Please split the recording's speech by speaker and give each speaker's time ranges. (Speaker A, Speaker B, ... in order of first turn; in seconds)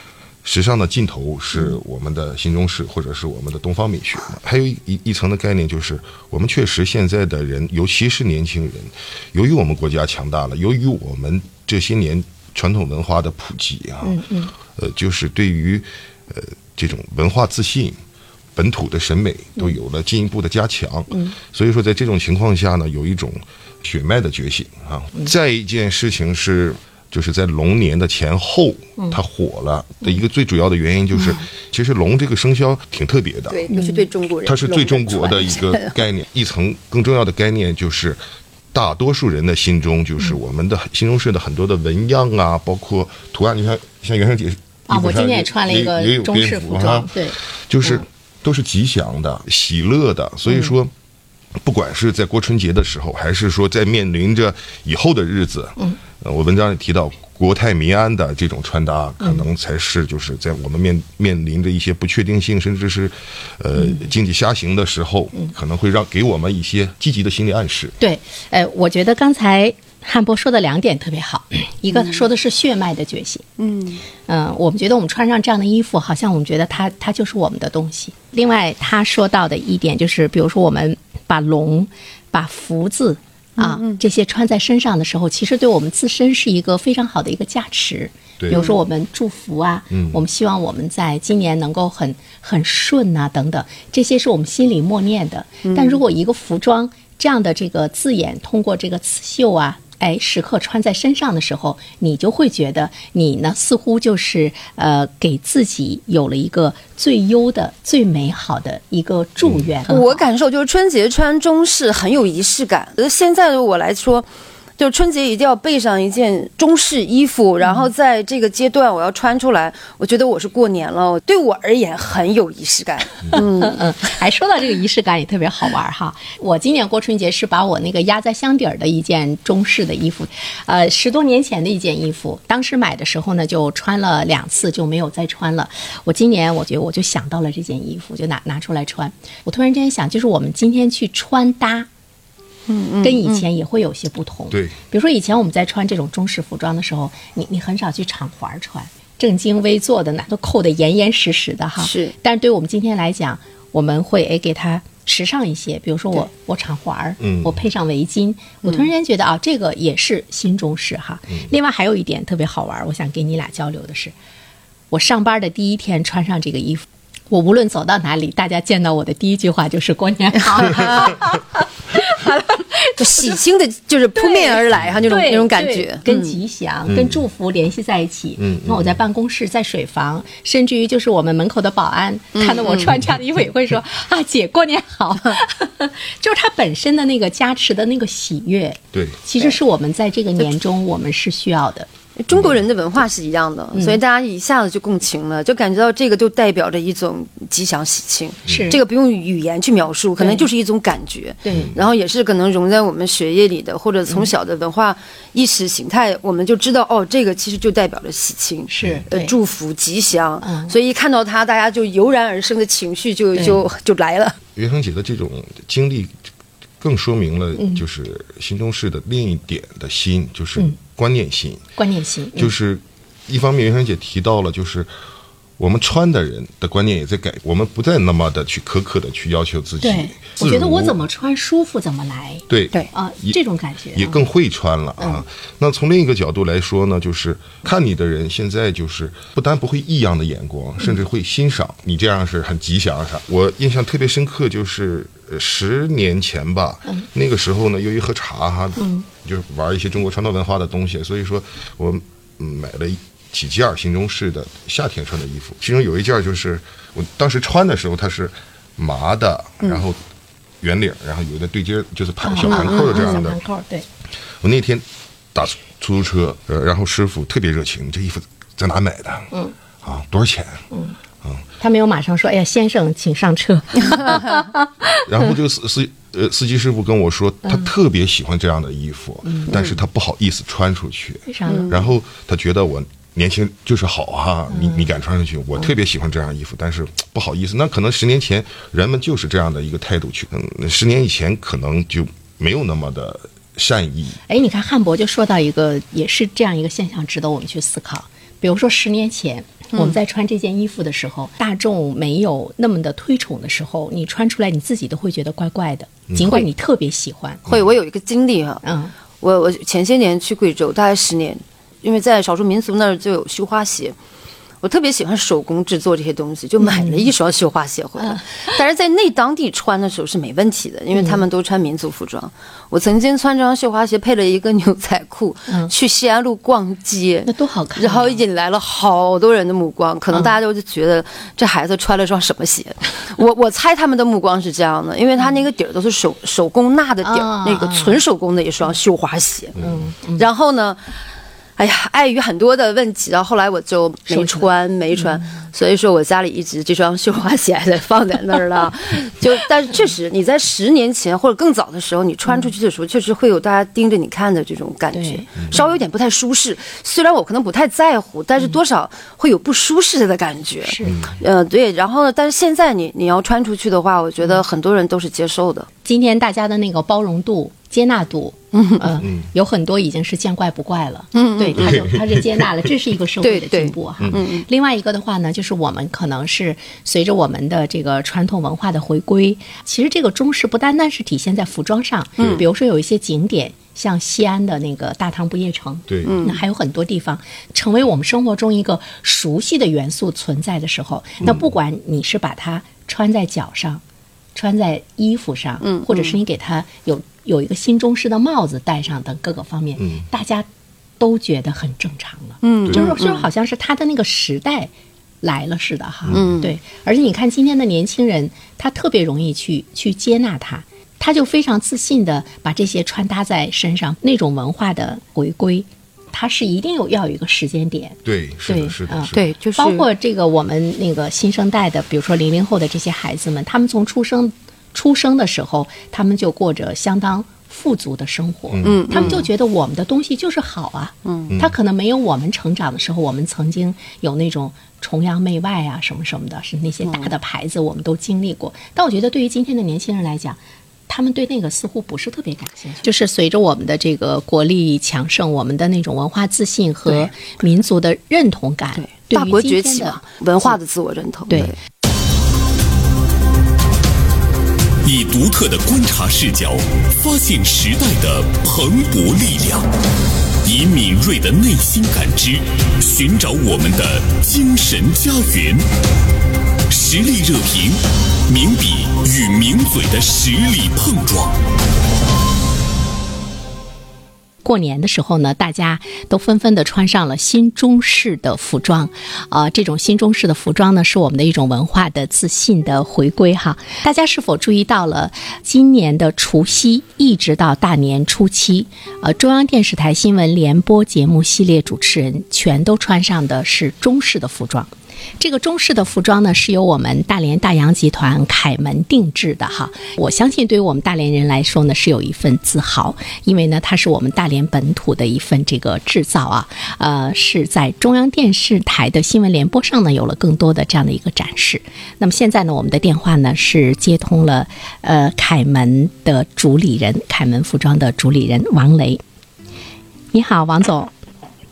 Speaker A: 0.4-18.0, 18.6-33.7, 34.5-38.2, 38.7-50.9, 51.6-68.0, 89.9-90.2, 144.5-144.8, 157.2-157.6, 176.9-177.2, 178.4-179.0, 188.9-189.2, 214.6-216.1, 216.8-221.6, 222.4-224.9, 225.6-231.0, 232.5-233.4, 233.9-260.0, 260.6-263.4, 264.4-270.7, 275.1-294.2, 306.1-306.4, 339.6-339.9, 360.9-361.1, 369.0-369.3, 382.2-382.4, 385.9-386.2, 402.7-402.9, 406.1-406.4, 418.1-419.3, 428.5-429.2
Speaker B: 14.0-14.5, 21.1-21.4, 33.7-34.0, 44.9-48.0, 59.2-59.5, 63.8-64.1, 68.0-73.5, 74.3-110.3, 123.3-141.9, 143.0-164.2, 164.9-173.4, 174.2-191.9, 198.5-198.8, 200.2-200.5, 201.4-201.7, 208.7-209.3, 210.4-210.7, 213.3-213.6, 217.6-217.8, 221.8-222.5, 229.8-234.3, 248.8-249.1, 262.2-263.9, 270.7-271.0, 271.6-275.3, 279.2-279.6, 281.3-281.8, 284.5-284.9, 294.3-307.4, 308.6-308.9, 316.6-317.1, 318.0-318.4, 320.9-321.2, 327.3-328.2, 337.0-338.0, 339.6-340.3, 344.1-345.2, 354.9-355.8, 360.6-361.0, 365.9-393.8, 394.4-400.5, 401.0-404.7, 405.2-450.6, 451.3-451.5, 474.4-519.0, 520.1-520.9
Speaker C: 33.5-36.0, 73.6-74.0, 83.6-84.0, 88.5-88.8, 95.6-96.0, 109.9-114.3, 114.8-123.8, 142.7-143.4, 151.8-152.1, 170.5-171.2, 173.0-176.4, 182.4-182.9, 192.2-214.4, 262.5-263.1, 281.5-281.8, 307.5-308.6, 309.2-314.0, 314.6-339.6, 340.2-340.9, 341.6-365.7, 368.5-368.9, 371.1-371.8, 373.2-374.5, 386.1-386.4, 395.6-396.2, 402.4-403.3, 406.1-406.5, 419.1-419.9, 428.6-429.2, 431.1-431.3, 436.9-437.1, 448.8-451.6
Speaker D: 454.8-459.7, 460.4-465.6, 466.7-471.3